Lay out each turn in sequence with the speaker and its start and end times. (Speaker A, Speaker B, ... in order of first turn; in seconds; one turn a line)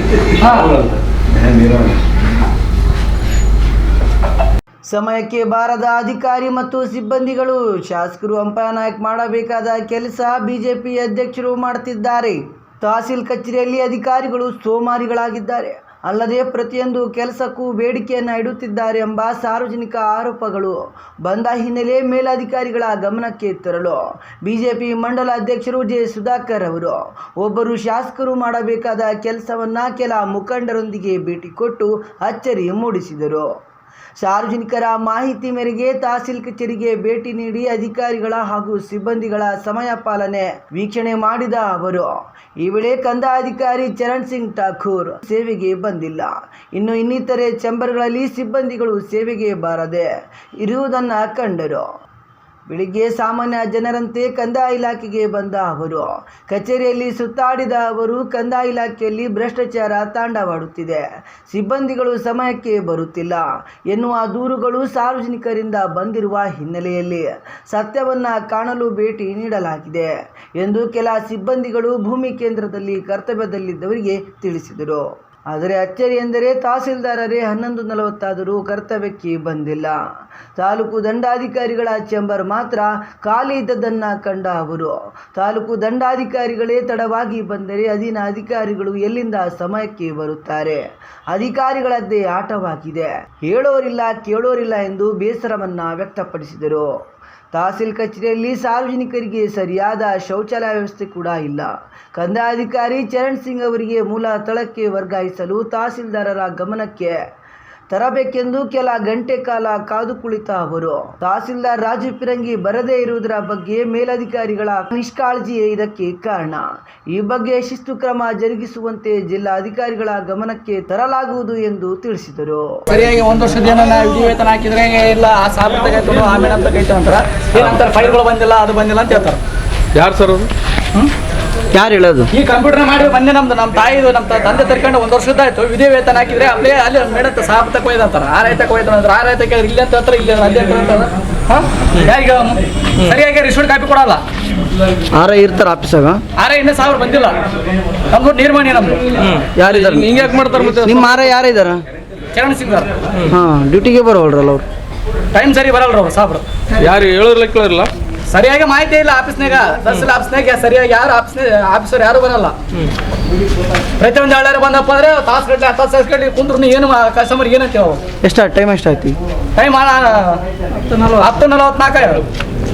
Speaker A: 0.4-0.9
Speaker B: 4.9-33.5
Speaker B: 34.2-51.9
Speaker B: 52.7-80.0
Speaker B: 80.6-96.9
Speaker B: 97.5-107.2
Speaker B: 107.9-122.8
Speaker A: 122.9-129.4
Speaker C: 129.9-130.5
Speaker B: 131.7-132.3
Speaker A: 132.3-144.2
Speaker B: 145.1-146.2
Speaker A: 146.4-147.4
Speaker A: 148.1-149.1
Speaker C: 149.2-151.2
Speaker B: 149.6-151.8
Speaker A: 152.3-152.9
Speaker B: 153.3-154.7
Speaker A: 155.3-156.5
Speaker C: 156.8-157.9
Speaker A: 158.3-162.6
Speaker A: 164.0-168.0
Speaker B: 168.2-169.2
Speaker A: 169.6-172.2